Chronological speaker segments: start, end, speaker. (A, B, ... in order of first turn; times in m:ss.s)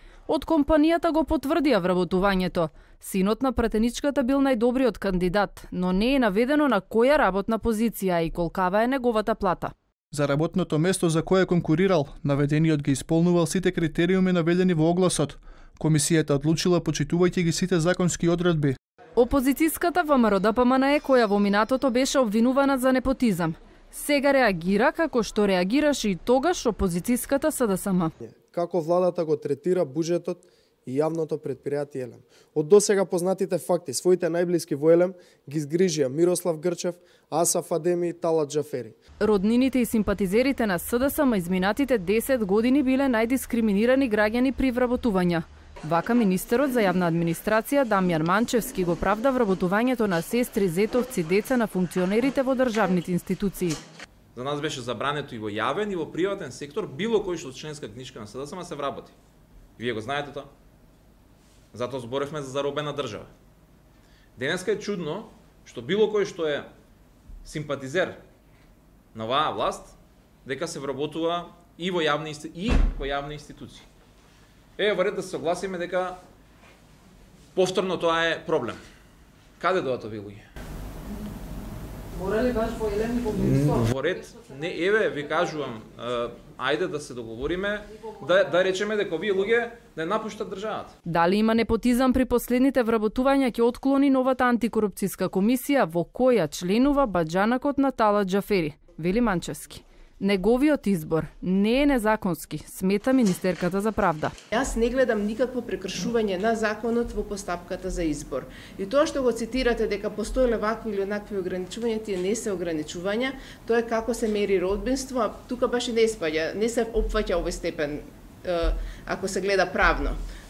0:00.3-0:09.7 A
0:10.1-0:18.8 B
0:19.2-0:28.1 A
0:28.2-0:39.0 C
0:39.2-0:53.8 A
0:54.3-0:59.2 D
0:59.8-1:00.5 D
1:01.7-1:03.3 D
1:04.4-1:06.7 D
1:07.4-1:08.2 D
1:09.1-1:13.9 D
1:14.8-1:16.2 D
1:17.6-1:18.8 D
1:19.6-1:20.5 D
1:22.1-1:23.8 A
1:23.4-1:30.9 D
1:31.1-1:44.3 A
1:44.5-2:00.2 E